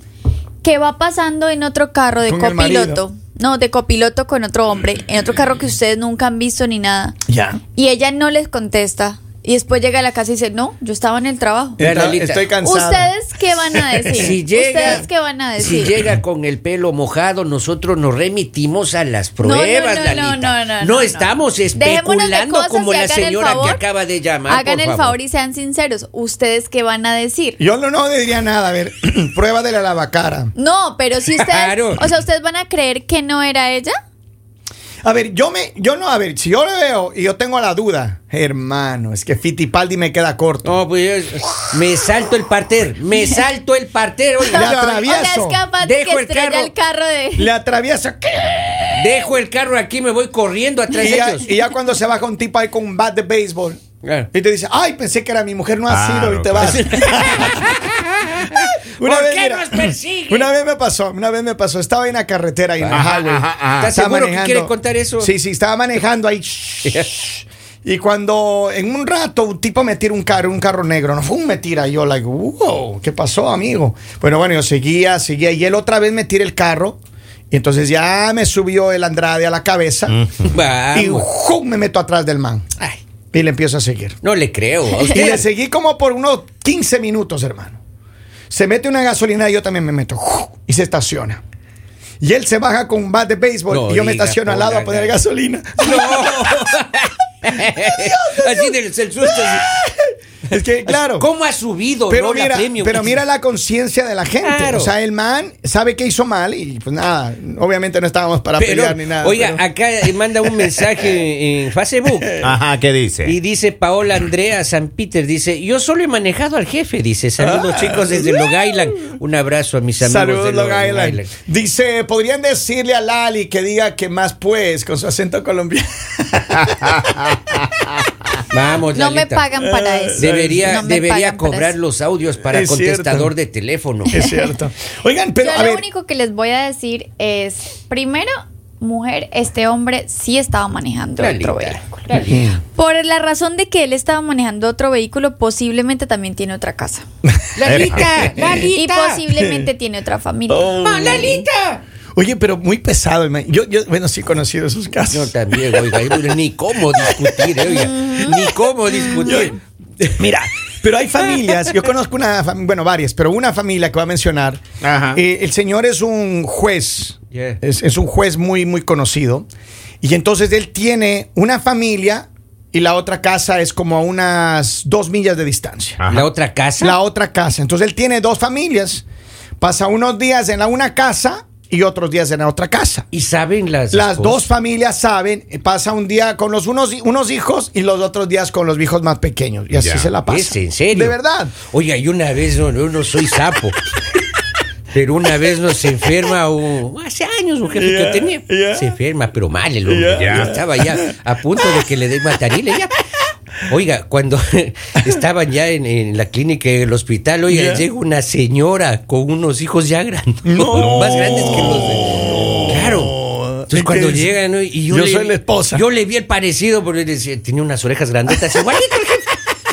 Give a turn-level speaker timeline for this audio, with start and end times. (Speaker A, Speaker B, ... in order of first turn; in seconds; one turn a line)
Speaker A: 0.6-7.2
Speaker B: 2.2-3.0
Speaker B: 7.3-7.6
Speaker A: 7.7-11.8
Speaker B: 11.8-13.1
Speaker C: 11.8-12.5
Speaker A: 12.6-16.0
Speaker B: 13.7-14.3
Speaker C: 14.2-15.1
Speaker C: 15.6-25.2
Speaker A: 19.4-23.8
Speaker A: 24.4-27.6
Speaker B: 27.6-30.5
Speaker A: 30.6-33.9
Speaker C: 31.4-32.1
Speaker B: 35.0-40.7
Speaker C: 40.6-44.8
Speaker A: 44.5-47.5
Speaker B: 44.5-45.6
Speaker C: 45.8-46.7
Speaker B: 47.4-49.2
Speaker C: 49.0-51.5
Speaker B: 50.9-53.8
Speaker C: 54.0-54.3
Speaker B: 54.3-57.7
Speaker D: 55.9-57.1
Speaker C: 56.6-60.5
Speaker B: 59.0-77.0
Speaker C: 62.8-63.0
Speaker D: 62.9-63.9
Speaker C: 63.8-65.3
Speaker C: 66.8-67.2
Speaker B: 77.5-80.2
Speaker D: 80.1-80.5
Speaker C: 80.5-81.3
Speaker B: 80.9-82.8
Speaker B: 83.3-84.2
Speaker C: 84.2-85.5
Speaker B: 85.0-87.8
Speaker B: 88.5-91.4
Speaker B: 92.2-96.4
Speaker C: 93.7-95.2
Speaker C: 95.8-99.8
Speaker B: 97.9-101.3
Speaker C: 100.8-103.2
Speaker B: 102.1-109.6
Speaker C: 104.4-104.9
Speaker C: 108.6-112.5
Speaker D: 112.4-113.3
Speaker C: 113.2-121.3
Speaker B: 117.4-118.6
Speaker B: 120.0-127.4
Speaker C: 128.5-129.4
Speaker A: 128.9-131.8
Speaker B: 129.6-130.8
Speaker C: 130.2-134.2
Speaker B: 132.4-133.3
Speaker B: 134.1-135.8
Speaker A: 135.4-142.2
Speaker C: 141.2-142.5
Speaker B: 142.3-142.6
Speaker A: 142.7-147.0
Speaker C: 147.6-149.2
Speaker D: 147.7-148.1
Speaker A: 148.7-150.8
Speaker B: 149.3-149.7
Speaker B: 150.5-151.4
Speaker C: 150.8-151.8
Speaker B: 152.1-156.3
Speaker C: 155.1-160.0
Speaker B: 156.9-157.5
Speaker A: 157.6-158.4
Speaker B: 159.1-159.6
Speaker B: 160.1-164.6
Speaker D: 164.8-165.2
Speaker B: 165.1-169.4
Speaker C: 167.3-167.6
Speaker B: 170.0-176.0
Speaker D: 176.0-176.3
Speaker C: 176.1-177.0
Speaker B: 176.8-179.0
Speaker B: 179.6-183.1
Speaker C: 183.1-184.4
Speaker B: 183.9-191.5
Speaker D: 189.7-190.1
Speaker C: 190.2-193.8
Speaker C: 194.9-203.0
Speaker B: 197.7-198.9
Speaker B: 199.8-201.1
Speaker D: 200.1-200.5
Speaker C: 203.6-213.2
Speaker B: 207.5-207.8
Speaker B: 210.4-214.3
Speaker D: 210.7-212.7
Speaker C: 213.7-219.2
Speaker B: 214.9-215.8